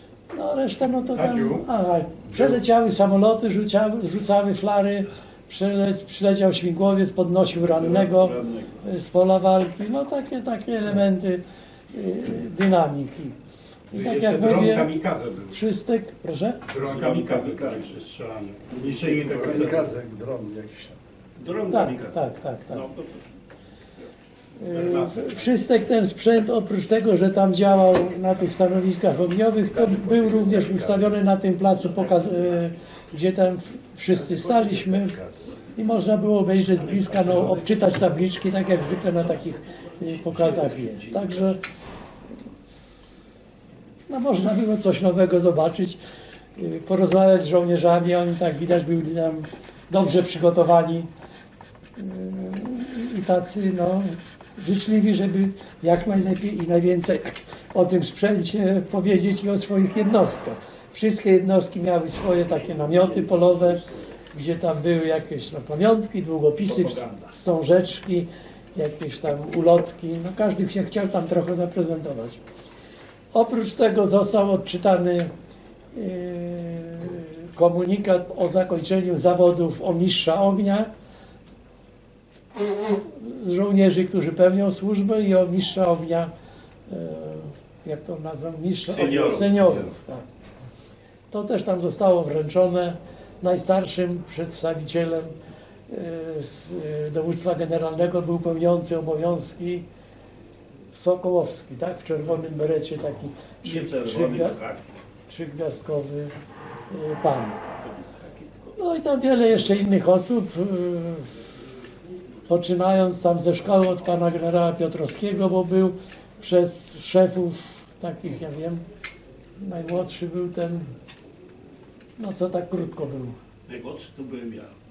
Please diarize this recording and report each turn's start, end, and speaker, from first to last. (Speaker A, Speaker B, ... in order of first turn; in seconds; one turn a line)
Speaker A: 0.3-13.4
Speaker B: 1.1-1.6
Speaker C: 7.7-8.8
Speaker A: 13.9-14.9
Speaker B: 13.9-15.6
Speaker A: 15.5-16.6
Speaker B: 16.7-19.9
Speaker C: 16.8-18.0
Speaker C: 18.7-19.9
Speaker D: 19.4-21.0
Speaker C: 21.4-23.3
Speaker A: 21.7-22.9
Speaker A: 24.6-35.2
Speaker C: 24.7-25.1
Speaker D: 29.9-30.3
Speaker A: 35.7-41.6
Speaker C: 37.0-37.5
Speaker C: 40.0-41.5
Speaker A: 44.1-46.0
Speaker A: 46.6-51.1
Speaker A: 52.0-72.4
Speaker C: 62.5-63.8
Speaker C: 66.7-67.1
Speaker A: 73.3-75.3
Speaker A: 75.9-80.9
Speaker A: 83.1-86.3
Speaker A: 86.9-90.2
Speaker C: 88.9-89.9
Speaker A: 91.3-95.4
Speaker A: 95.9-99.9
Speaker A: 100.9-104.6
Speaker C: 103.6-105.0
Speaker A: 105.3-106.4
Speaker A: 106.9-107.6
Speaker C: 107.8-108.8
Speaker A: 108.8-111.3
Speaker A: 112.5-118.8
Speaker A: 119.6-121.0
Speaker A: 122.2-123.4
Speaker C: 123.7-124.8